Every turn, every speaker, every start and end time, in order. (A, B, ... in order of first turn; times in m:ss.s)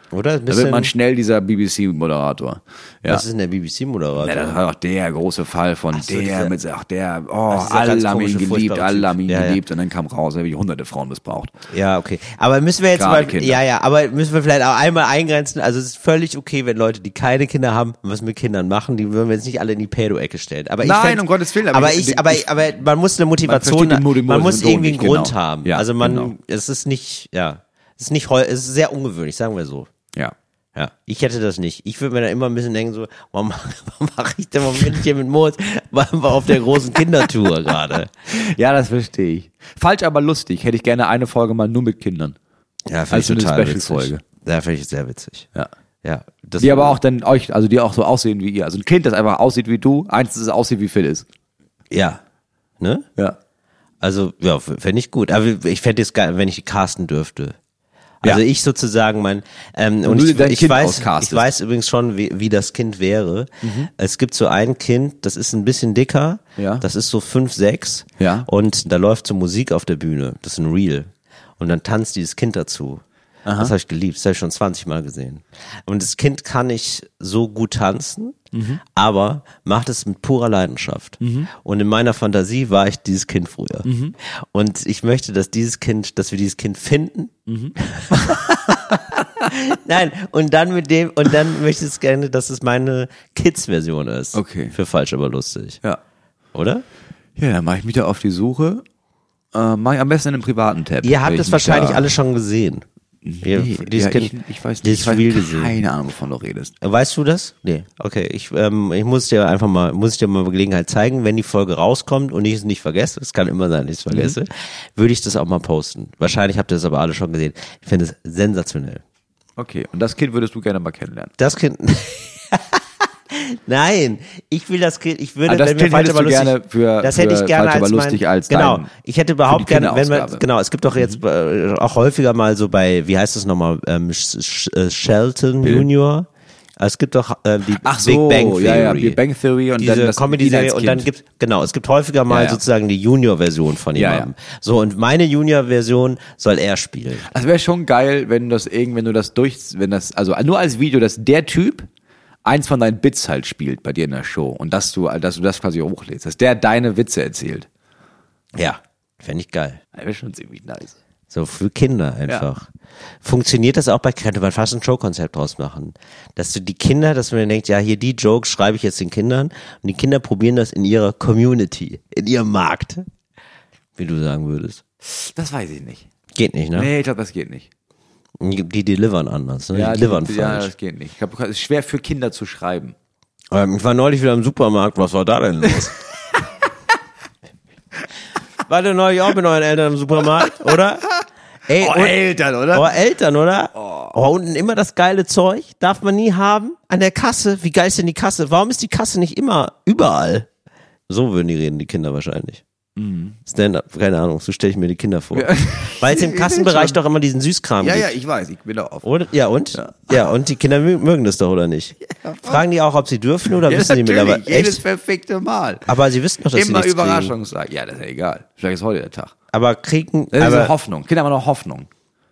0:00.1-0:00.9 A
0:00.5-0:03.2 B
0:03.1-0:04.6 A
0:04.2-0:11.5 B
0:05.9-0:06.6 A
0:07.5-0:09.6 A
0:11.7-0:29.9 A
0:13.0-0:13.6 B
0:20.8-0:22.7 B
0:23.4-0:26.3 B
0:30.8-0:38.1 A
0:38.2-0:42.4 B
0:42.9-0:45.5 A
0:43.1-0:44.2 B
0:46.0-0:47.0 A
0:46.6-0:51.2 B
0:51.9-0:52.2 A
0:52.8-0:53.1 A
0:54.0-0:57.6 A
0:58.2-1:13.0 A
1:00.0-1:01.5 B
1:03.6-1:03.9 B
1:06.6-1:06.8 B
1:08.2-1:08.5 B
1:13.5-1:13.7 B
1:13.6-1:35.8 A
1:18.5-1:18.8 B
1:21.2-1:21.5 B
1:23.8-1:24.2 B
1:27.5-1:29.3 B
1:34.3-1:34.8 B
1:36.5-1:36.8 A
1:37.4-1:38.8 B
1:39.5-1:42.1 B
1:41.0-1:42.8 A
1:43.2-1:46.7 B
1:43.4-1:45.7 A
1:46.8-1:59.0 A
1:54.1-1:54.4 B
1:59.6-2:01.3 B
2:01.4-2:16.3 A
2:05.5-2:08.9 B
2:09.5-2:10.4 B
2:15.6-2:15.9 B
2:16.8-2:19.2 A
2:17.8-2:21.1 B
2:19.8-2:27.3 A
2:22.3-2:22.6 B
2:24.0-2:24.3 B
2:27.2-2:31.9 B
2:32.4-2:37.7 B
2:38.6-2:39.8 A
2:40.0-2:41.0 B
2:41.3-2:42.7 A
2:43.2-2:53.0 A
2:54.0-2:54.8 A
2:55.0-2:56.1 B
2:56.4-2:56.9 A
2:56.8-2:57.7 B
2:58.4-3:00.7 A
2:59.7-3:03.0 B
3:03.5-3:06.0 A
3:08.7-3:11.1 A
3:11.7-3:12.2 A
3:11.7-3:12.9 B
3:12.7-3:20.5 A
3:13.8-3:14.1 B
3:21.1-3:22.6 A
3:23.0-3:23.4 B
3:23.5-3:28.1 A
3:25.3-3:27.0 B
3:27.8-3:29.1 B
3:29.0-3:34.8 A
3:29.8-3:30.2 B
3:32.2-3:32.6 B
3:33.5-3:35.9 B
3:35.9-3:37.4 A
3:36.5-3:39.3 B
3:39.5-3:40.7 A
3:40.3-3:41.9 B